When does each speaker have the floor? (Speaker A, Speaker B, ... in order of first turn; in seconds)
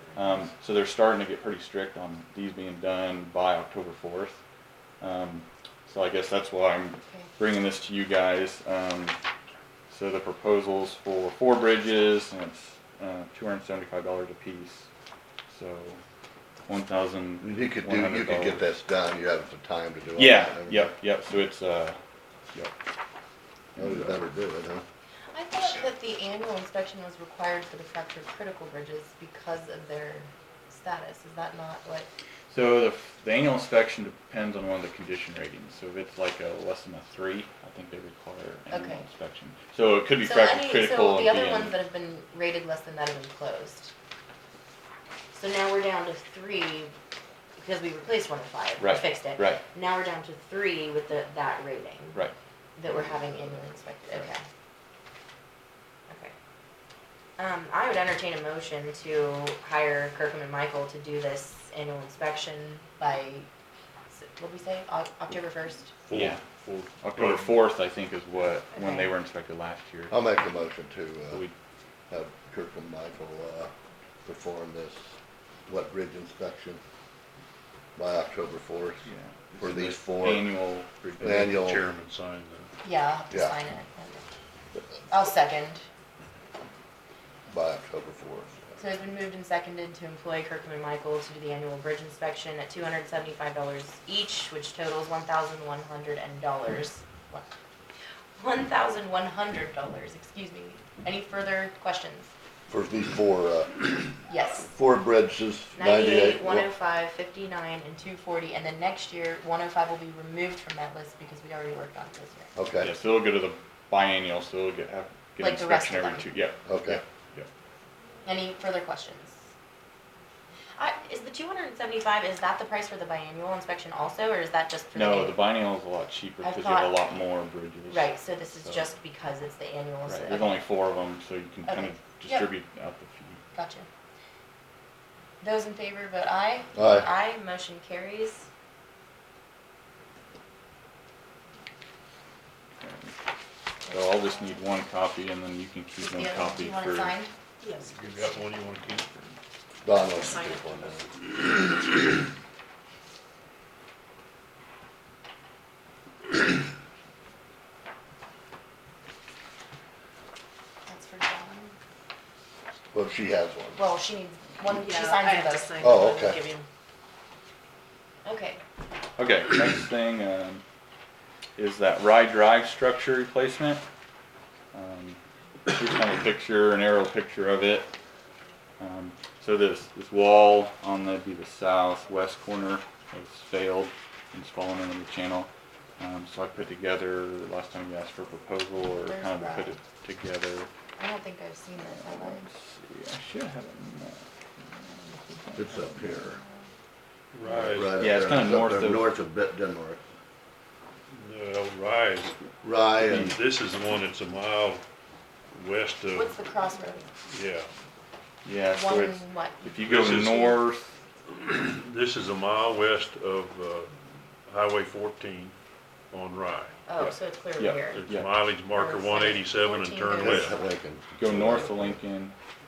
Speaker A: 0.1-4.4, 5.0-9.2, 9.9-14.9, 15.5-16.0, 16.6-18.6, 20.2-22.0, 23.8-24.2, 32.5-41.8, 48.8-49.6, 66.1-66.4, 67.0-70.1, 79.0-81.5, 112.8-117.5, 124.9-128.9, 130.1-133.4, 142.8-143.1, 143.9-147.2, 169.2-170.6, 171.6-173.8, 174.7-177.9, 178.8-190.7, 191.8-196.2, 197.9-199.1, 203.1-203.3, 208.4-210.9, 217.0-218.3, 221.2-222.3
Speaker B: 17.4-20.9, 23.8-24.8, 52.9-53.6, 70.1-71.4, 72.1-73.7, 74.2-75.1, 75.7-76.8, 78.0-79.0, 79.6-80.5, 81.2-81.9, 83.3-83.5, 87.5-88.8, 102.7-104.1, 104.7-106.7, 112.5-112.9, 116.7-117.0, 136.8-137.1, 149.8-151.1, 162.9-163.8, 165.8-166.4, 195.6-196.4, 197.7-200.0, 202.6-203.4, 220.2-222.0
Speaker C: 25.3-32.1, 38.7-39.0, 40.2-43.9, 45.3-46.9, 47.6-52.2, 52.8-54.4, 56.1-56.3, 57.4-63.5, 64.1-66.0, 68.7-69.1, 82.8-84.2, 85.1-85.8, 88.8-97.5, 98.4-102.3, 104.3-104.7, 105.7-112.5, 115.4-116.3, 118.2-119.4, 120.8-125.6, 126.4-127.0, 127.9-130.6, 131.7-132.5, 133.5-133.9, 135.4-138.5, 146.0-147.3, 160.9-161.7, 163.8-165.9, 168.2-168.6, 189.0-189.7, 191.0-192.4, 206.1-207.1, 208.7-210.6, 216.9-218.0, 218.7-220.5
Speaker D: 66.0-67.5, 81.2-82.7, 147.9-149.1, 197.3-198.1, 201.1-202.3, 203.0-204.8, 205.5-206.3, 207.3-207.7, 209.8-210.6, 211.4-213.9, 214.4-215.5, 216.1-216.8, 217.9-220.5
Speaker E: 147.6-148.0, 149.9-151.0, 164.7-166.7